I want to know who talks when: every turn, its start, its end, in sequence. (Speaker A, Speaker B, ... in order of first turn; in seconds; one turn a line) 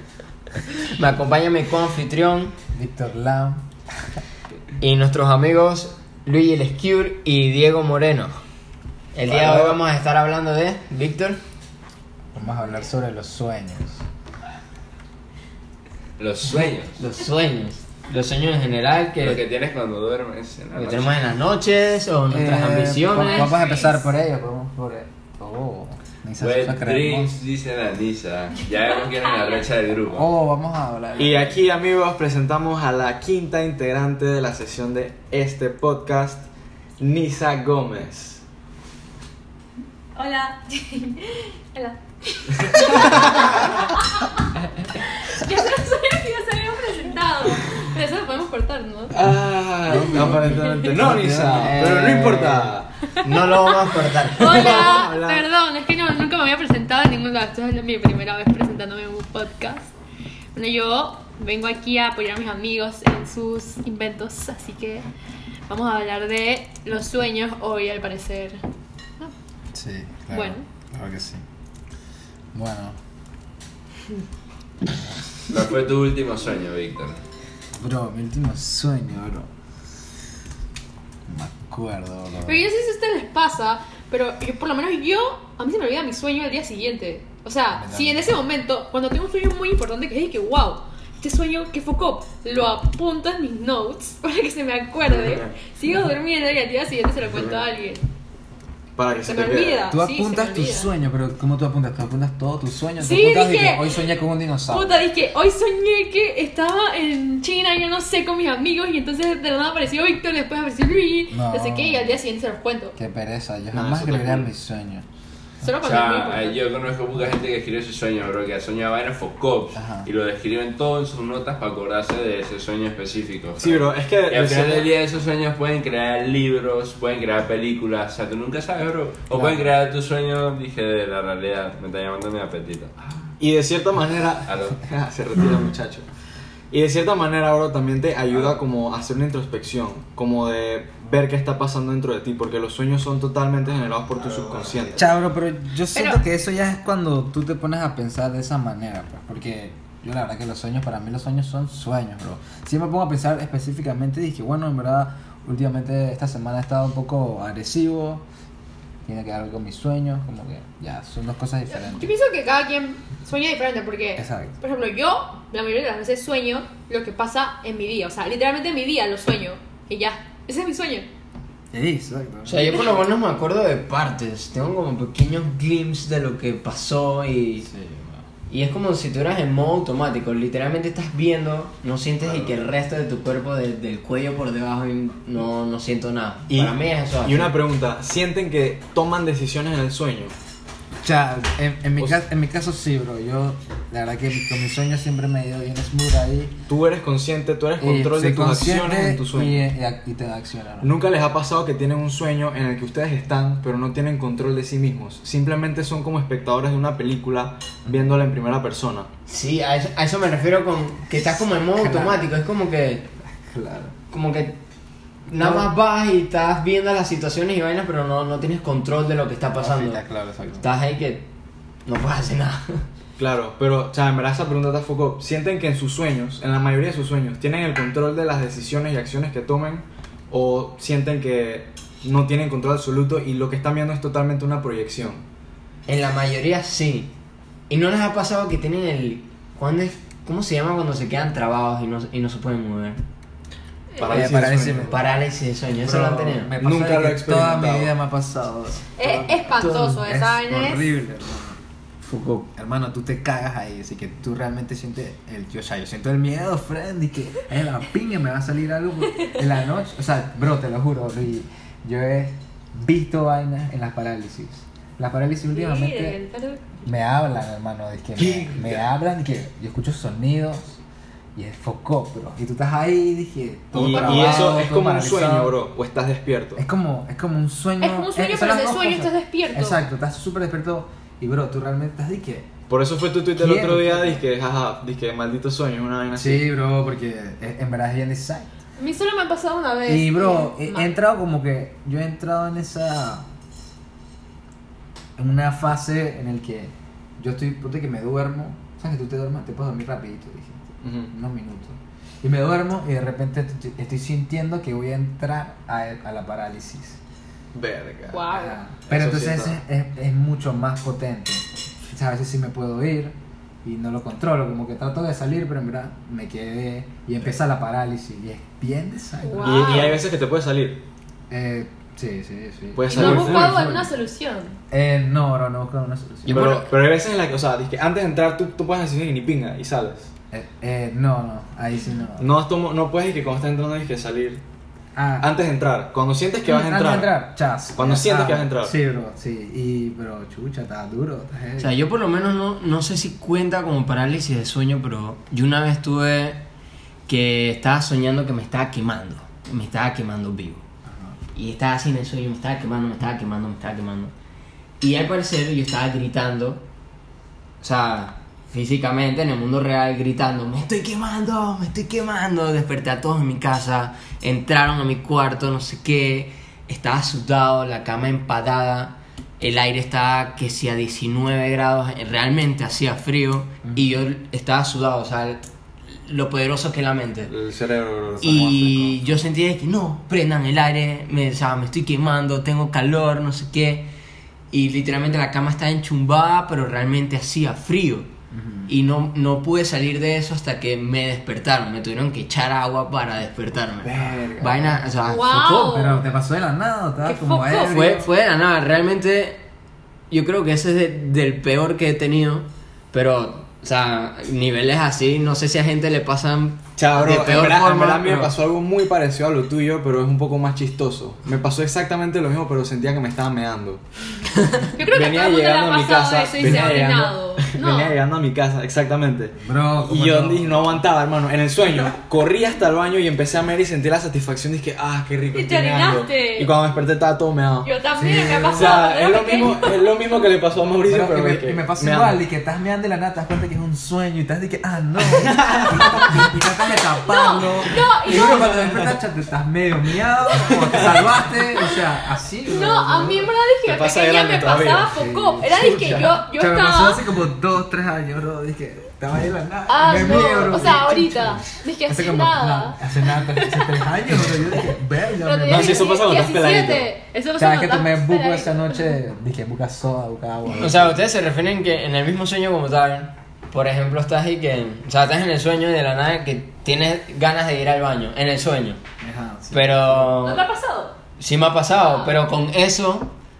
Speaker A: 0.6-2.5
Speaker B: 2.7-3.6
Speaker A: 4.8-8.4
Speaker A: 9.1-11.4
Speaker B: 9.3-9.7
Speaker B: 12.3-14.0
Speaker C: 16.2-16.9
Speaker A: 17.0-19.4
Speaker C: 19.2-21.2
Speaker A: 20.7-23.8
Speaker B: 22.3-27.4
Speaker D: 23.1-24.1
Speaker C: 26.4-30.3
Speaker D: 28.9-29.6
Speaker B: 30.1-31.6
Speaker E: 31.2-36.5
Speaker E: 37.0-38.4
Speaker D: 40.1-44.4
Speaker E: 42.8-43.5
Speaker D: 45.0-49.1
Speaker E: 49.1-52.9
Speaker B: 49.9-52.4
Speaker D: 50.6-50.9
Speaker A: 51.5-52.7
Speaker A: 53.2-54.7
Speaker E: 54.4-55.4
Speaker D: 54.4-59.9
Speaker D: 60.5-65.1
Speaker D: 65.7-68.6
Speaker B: 69.7-71.4
Speaker D: 70.3-70.7
Speaker B: 72.5-73.0
Speaker C: 75.5-77.2
Speaker B: 77.8-79.5
Speaker B: 81.3-82.6
Speaker D: 82.4-98.1
Speaker B: 87.7-88.4
Speaker E: 95.0-95.6
Speaker E: 98.9-99.9
Speaker D: 99.3-100.9
Speaker B: 99.9-105.0
Speaker D: 103.0-103.9
Speaker D: 104.7-112.9
Speaker B: 111.3-112.2
Speaker B: 113.0-115.0
Speaker E: 113.7-114.5
Speaker D: 115.6-116.6
Speaker C: 115.8-132.9
Speaker B: 119.7-120.1
Speaker E: 123.6-124.9
Speaker B: 129.3-129.7
Speaker E: 133.4-136.1
Speaker C: 134.4-134.8
Speaker E: 136.7-145.1
Speaker B: 144.9-158.2
Speaker D: 145.9-146.2
Speaker B: 159.1-162.1
Speaker D: 161.7-171.1
Speaker B: 164.2-164.6
Speaker B: 171.7-172.8
Speaker A: 172.4-177.7
Speaker B: 177.6-178.2
Speaker A: 178.5-187.5
Speaker E: 182.3-182.5
Speaker E: 186.5-190.3
Speaker B: 191.0-196.6
Speaker E: 196.7-199.7
Speaker B: 197.8-200.9
Speaker E: 200.8-209.1
Speaker A: 209.3-213.1
Speaker B: 211.1-212.3
Speaker B: 213.3-213.9
Speaker A: 214.1-214.6
Speaker A: 215.3-220.0
Speaker B: 215.3-215.7
Speaker B: 219.4-220.7
Speaker A: 220.6-221.3
Speaker A: 221.8-222.8
Speaker E: 223.2-235.2
Speaker A: 235.9-237.1
Speaker A: 237.7-243.0
Speaker D: 243.9-244.2
Speaker E: 244.0-245.0
Speaker B: 244.0-245.1
Speaker A: 244.1-246.5
Speaker B: 245.7-251.6
Speaker E: 246.6-247.9
Speaker D: 249.0-250.9
Speaker A: 252.0-252.5
Speaker B: 252.5-266.2
Speaker D: 265.5-266.8
Speaker B: 266.9-270.8
Speaker E: 268.2-268.9
Speaker B: 271.3-275.6
Speaker E: 273.7-276.6
Speaker D: 273.9-274.6
Speaker B: 276.6-282.5
Speaker D: 277.8-279.8
Speaker E: 282.7-286.4
Speaker B: 283.4-284.2
Speaker B: 286.1-288.5
Speaker D: 288.8-290.9
Speaker B: 289.9-293.2
Speaker B: 295.2-307.0
Speaker E: 300.8-301.1
Speaker E: 307.5-308.2
Speaker D: 308.1-308.6
Speaker B: 308.2-320.0
Speaker E: 308.9-309.6
Speaker D: 319.2-320.0
Speaker E: 319.4-320.8
Speaker B: 321.3-323.9
Speaker E: 322.7-323.5
Speaker D: 323.0-324.6
Speaker B: 324.7-326.5
Speaker A: 326.2-326.7
Speaker E: 326.3-330.1
Speaker B: 330.3-332.3
Speaker E: 332.2-334.4
Speaker B: 334.9-335.3
Speaker E: 335.2-337.1
Speaker B: 336.4-341.8
Speaker E: 337.7-338.7
Speaker A: 341.6-346.4
Speaker A: 347.1-350.6
Speaker B: 350.9-351.2
Speaker A: 351.3-354.1
Speaker A: 354.8-356.6
Speaker A: 357.6-377.3
Speaker B: 373.6-374.0
Speaker E: 377.3-379.1
Speaker A: 378.2-383.9
Speaker A: 384.5-388.1
Speaker B: 388.3-388.7
Speaker A: 388.7-395.8
Speaker B: 393.8-398.1
Speaker D: 395.1-396.0
Speaker D: 397.0-397.7
Speaker A: 397.6-399.4
Speaker A: 400.1-408.3
Speaker E: 406.8-413.8
Speaker D: 414.8-418.0
Speaker E: 414.9-427.7
Speaker B: 416.4-416.8
Speaker B: 419.4-420.9
Speaker B: 421.6-421.9
Speaker D: 425.3-426.5
Speaker D: 427.6-430.1
Speaker B: 427.9-428.9
Speaker E: 428.5-432.2
Speaker B: 430.8-443.3
Speaker E: 435.1-436.2
Speaker D: 437.1-438.7
Speaker E: 438.1-438.9
Speaker E: 440.4-441.4
Speaker D: 442.5-447.0
Speaker E: 443.6-444.9
Speaker B: 444.9-455.9
Speaker E: 445.6-446.1
Speaker D: 449.7-453.7
Speaker D: 455.2-458.9
Speaker E: 455.5-456.9
Speaker B: 457.4-461.0
Speaker A: 460.5-468.8
Speaker B: 469.0-470.3
Speaker A: 469.5-470.4
Speaker D: 470.2-471.0
Speaker A: 471.2-473.1
Speaker D: 471.8-472.2